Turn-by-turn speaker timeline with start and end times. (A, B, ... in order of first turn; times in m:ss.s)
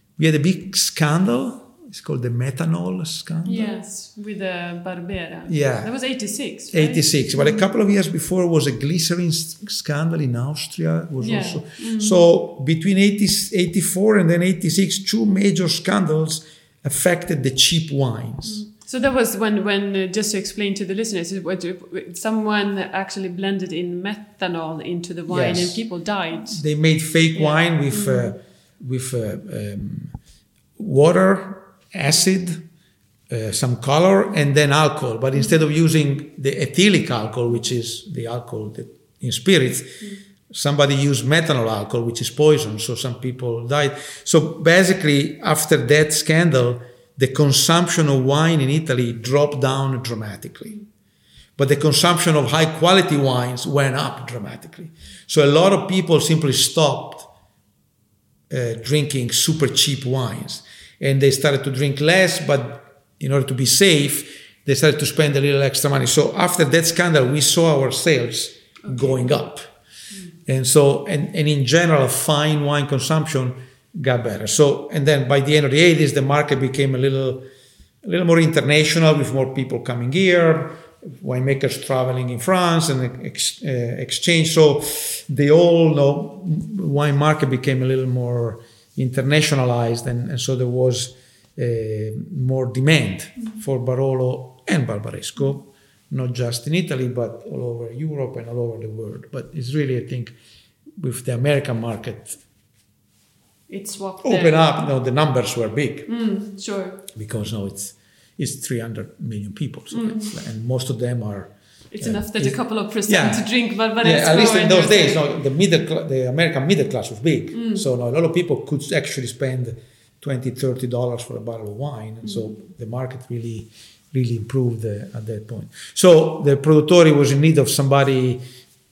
0:00.2-0:03.7 A
0:03.4-0:07.6 B
0:05.5-0:05.9 A
0:06.7-0:18.6 A
0:11.2-0:12.2 B
0:18.4-0:26.6 B
0:25.3-0:25.8 A
0:26.4-0:30.1 A
0:27.4-0:28.3 B
0:30.8-0:32.6 A
0:33.3-0:50.8 A
0:51.6-0:57.3 A
0:58.5-1:09.7 A
1:08.8-1:09.2 B
1:10.5-1:17.4 A
1:18.0-1:40.3 A
1:41.0-1:42.4 A
1:43.7-1:44.6 B
1:44.2-1:46.1 A
1:46.1-1:47.0 B
1:47.1-1:53.5 A
1:49.9-1:50.3 B
1:51.9-1:55.2 B
1:54.0-2:08.4 A
1:57.5-1:57.8 B